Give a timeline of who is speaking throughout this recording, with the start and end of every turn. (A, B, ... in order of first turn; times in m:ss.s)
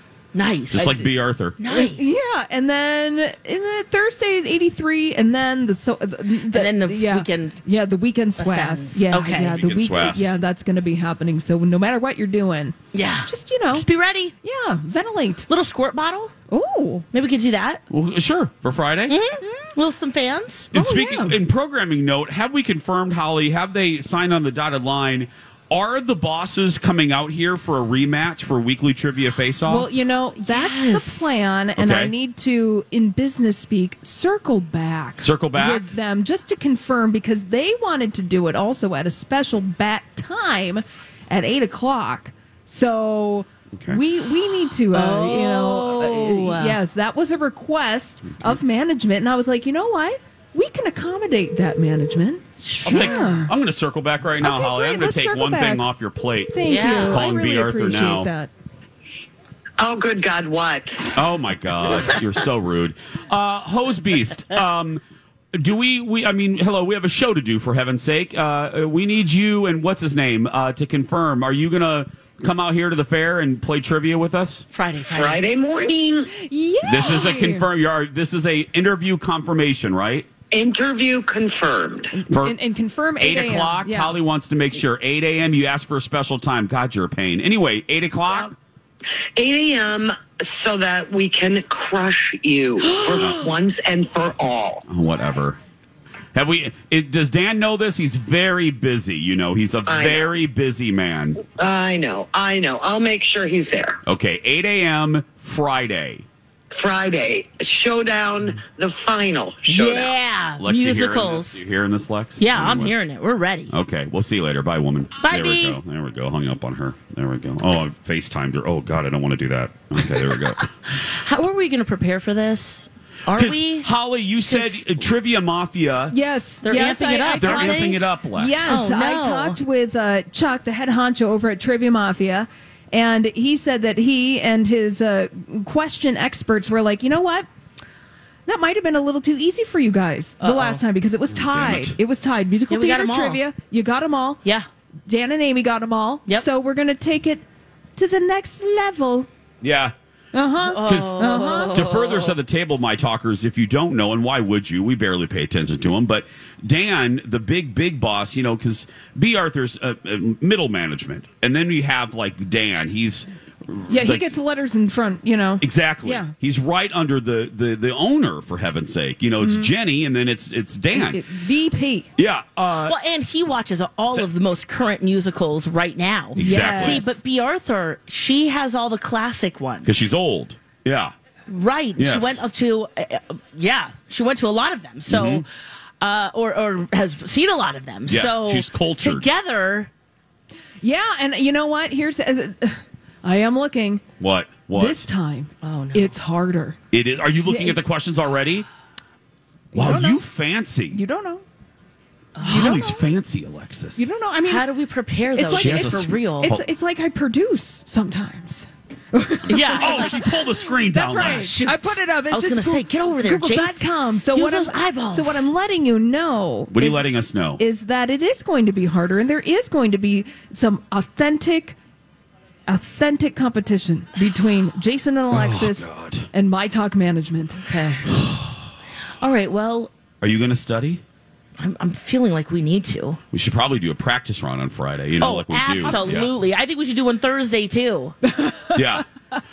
0:00.3-0:02.2 A
0:00.7-0:01.6 B
0:01.6-0:12.8 C
0:06.5-0:07.6 A
0:08.4-0:09.6 A
0:09.6-0:10.3 B
0:12.9-0:14.4 A
0:13.3-0:13.9 C
0:14.4-0:15.5 C
0:15.5-0:16.3 A
0:16.5-0:17.0 C
0:17.1-0:17.8 A
0:17.9-0:19.2 B
0:19.1-0:20.7 A
0:20.7-0:29.9 B
0:20.7-0:21.4 C
0:29.6-0:53.5 C
0:30.4-0:31.5 A
0:31.8-0:32.1 B
0:35.2-0:35.9 B
0:43.8-0:44.0 B
0:44.9-0:46.8 A
0:52.6-0:53.3 A
0:52.8-0:58.3 B
0:54.4-0:55.9 C
0:56.5-0:58.5 C
0:56.6-0:57.3 A
0:59.8-1:01.1 D
1:01.1-1:05.0 B
1:05.6-1:14.6 B
1:14.7-1:15.4 A
1:15.0-1:16.3 D
1:16.4-1:17.7 C
1:16.8-1:20.3 B
1:20.5-1:22.2 D
1:22.2-1:24.2 C
1:22.3-1:22.6 B
1:23.2-1:28.5 B
1:29.4-1:34.8 D
1:32.9-1:33.5 A
1:34.9-1:35.6 B
1:36.3-1:41.4 B
1:39.9-1:40.4 D
1:41.4-1:44.0 D
1:44.1-1:46.2 B
1:46.7-1:50.1 D
1:49.7-1:51.6 A
1:50.6-1:53.0 B
1:52.4-1:53.7 A
1:53.7-2:00.7 B
1:55.2-1:55.8 A
2:00.4-2:03.9 A
2:03.3-2:06.2 B
2:06.1-2:17.5 C
2:06.6-2:08.0 A
2:07.4-2:08.8 B
2:08.6-2:09.6 A
2:18.5-2:24.4 C
2:20.4-2:20.8 A
2:21.3-2:22.0 B
2:22.7-2:23.4 A
2:25.1-2:27.4 C
2:28.0-2:29.3 C
2:29.6-2:29.9 B
2:30.3-2:31.8 C
2:30.6-2:32.4 A
2:30.8-2:44.3 B
2:43.9-2:46.3 C
2:45.6-2:51.2 B
2:49.4-2:49.7 C
2:50.9-2:52.1 C
2:52.2-2:53.0 B
2:52.7-3:00.0 A
2:56.4-2:57.1 B
2:56.4-2:57.2 C
2:59.8-3:01.1 B
3:01.5-3:05.5 A
3:02.0-3:02.4 B
3:05.1-3:05.4 B
3:06.0-3:09.9 A
3:08.1-3:09.3 B
3:10.8-3:14.1 C
3:14.2-3:15.1 B
3:14.7-3:16.8 C
3:15.6-3:16.1 A
3:16.9-3:18.7 B
3:17.4-3:17.8 C
3:19.7-3:20.2 C
3:19.7-3:21.0 B
3:20.9-3:21.4 C
3:22.4-3:22.8 A
3:22.4-3:24.1 B
3:22.4-3:23.1 C
3:24.0-3:24.7 C
3:24.4-3:26.6 A
3:25.3-3:37.1 C
3:25.4-3:26.7 B
3:29.5-3:30.3 A
3:29.6-3:31.6 B
3:31.1-3:35.5 A
3:36.7-3:37.6 B
3:37.6-3:41.8 C
3:42.7-3:47.7 C
3:45.3-3:46.3 B
3:47.6-3:48.1 A
3:48.1-3:48.6 B
3:49.2-3:49.9 A
3:50.2-3:51.0 B
3:51.6-3:53.2 A
3:53.3-3:56.3 B
3:55.2-3:58.2 A
3:55.8-3:56.1 C
3:58.3-3:58.8 C
3:58.7-3:59.0 B